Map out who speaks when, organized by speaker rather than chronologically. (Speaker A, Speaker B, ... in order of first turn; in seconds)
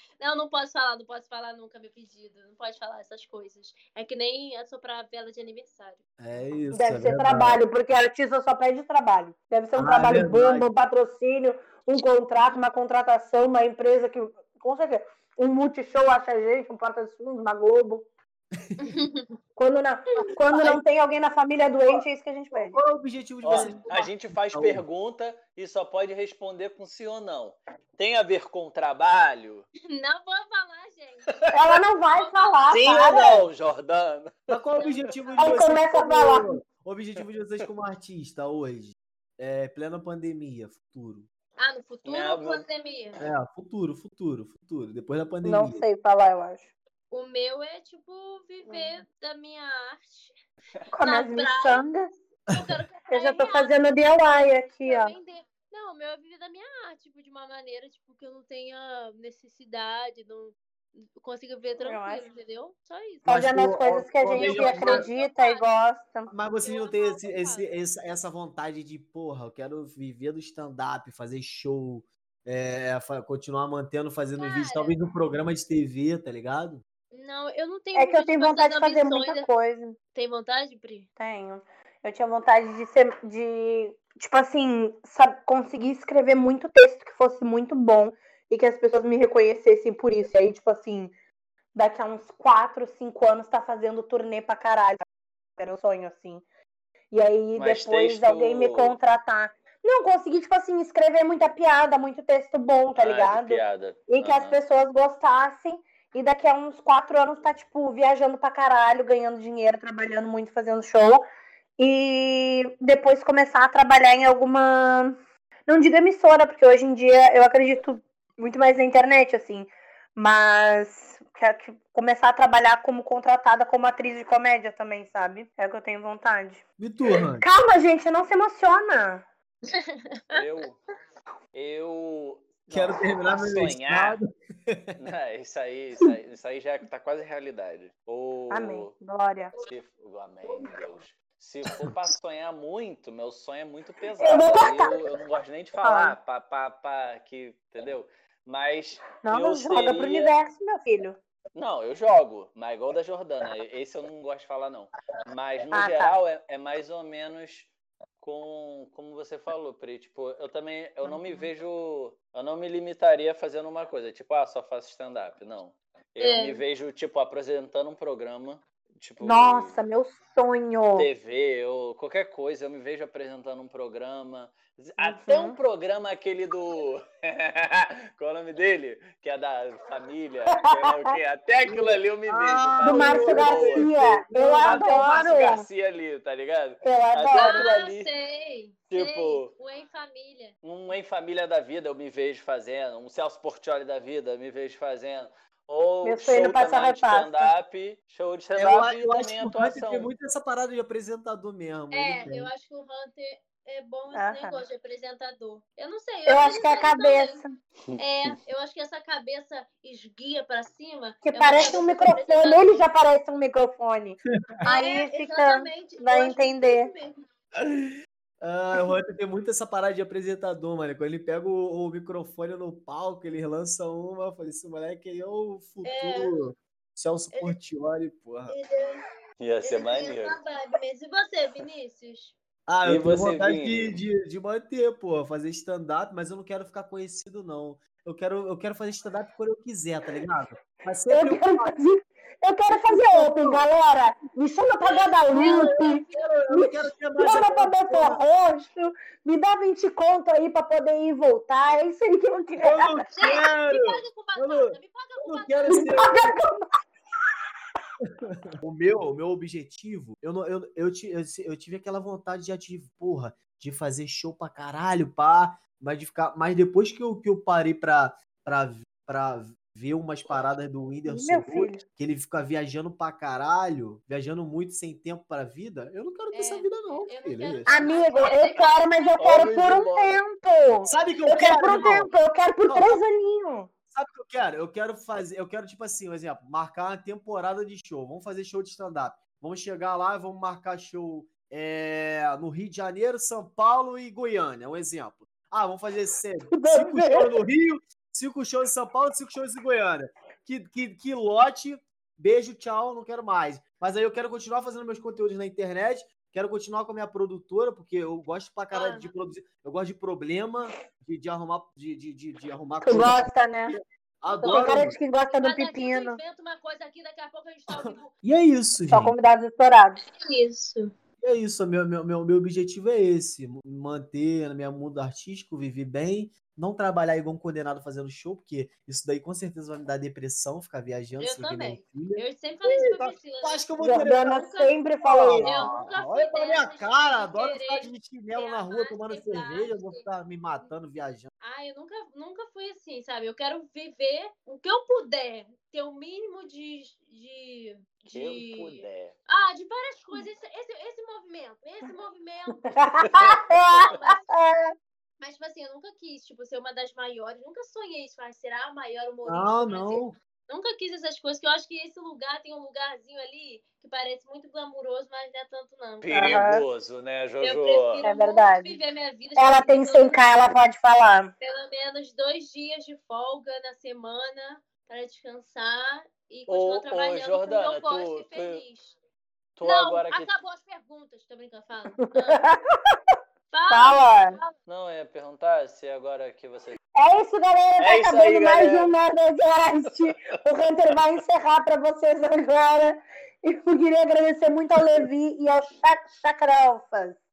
Speaker A: 0.2-6.0, 18.8-19.3, 29.9-31.5, 32.1-33.1, 34.8-35.2, 41.6-43.2, 47.1-50.4, 51.0-51.9, 52.5-53.7, 54.8-63.2, 64.3-65.6, 66.6-67.7, 74.4-75.0, 77.1-79.5, 80.1-81.1, 129.7-130.4, 166.2-166.6, 187.3-190.6, 201.9-207.4, 208.0-212.8, 214.6-217.2, 225.8-226.3, 228.5-229.1, 229.6-232.3, 244.8-246.4, 253.2-256.2, 276.3-279.2, 280.8-282.1, 308.7-309.1, 314.3-318.1, 320.1-320.9, 331.2-340.0, 341.4-354.3, 355.2-366.5, 367.4-370.3, 371.4-378.9, 379.6-382.4, 383.5-384.5
Speaker B: 6.2-7.6, 9.8-10.7, 20.5-20.8, 22.5-24.8, 34.5-41.3, 43.2-45.8, 63.2-65.0, 66.3-76.8, 126.8-127.5, 132.7-135.0, 181.7-185.1, 198.6-202.5, 218.4-228.5, 232.7-241.7, 242.9-243.6, 245.3-248.2, 252.6-256.4, 258.5-277.9, 280.9-282.1, 282.6-283.0, 283.9-315.0, 317.7-319.1, 321.2-334.3, 335.0-341.3, 359.2-360.2
Speaker C: 6.7-18.1, 19.6-22.8, 31.5-33.5, 35.4-36.6, 45.4-46.7, 48.7-49.0, 50.9-52.1, 53.1-55.1, 61.8-62.2, 63.3-66.3, 77.9-80.0, 81.2-91.1, 91.7-95.0, 95.6-96.4, 97.1-111.2, 111.8-115.1, 115.7-126.6, 127.4-129.2, 138.5-139.5, 144.2-145.0, 145.8-146.2, 149.2-151.2, 155.7-156.2, 161.0-161.5, 169.2-171.1, 175.0-175.6, 180.5-181.1, 182.8-185.7, 186.8-187.7, 196.0-197.5, 204.1-204.6, 206.2-207.5, 211.3-216.9, 241.1-252.9, 255.7-256.6, 271.1-271.8, 277.7-283.7, 296.5-297.3, 312.8-313.8, 314.4-316.2, 318.9-320.1, 333.8-335.7, 352.7-354.7, 366.1-366.6, 368.0-368.8, 369.4-371.3, 382.0-382.9, 383.7-384.4, 386.9-397.2
Speaker D: 23.4-29.7, 32.7-34.5, 42.0-42.6, 97.5-99.0, 103.0-104.6, 130.3-130.8, 131.5-134.2, 135.0-138.9, 139.6-150.3, 151.5-169.8, 170.9-183.9, 184.6-188.1, 188.9-189.5, 190.6-200.1, 207.9-208.3, 229.4-230.4, 232.8-234.0, 279.2-280.2, 348.1-349.1, 353.0-353.9, 366.0-368.1, 376.5-378.6, 379.5-380.3, 384.6-386.8, 387.8-388.9, 389.9-390.1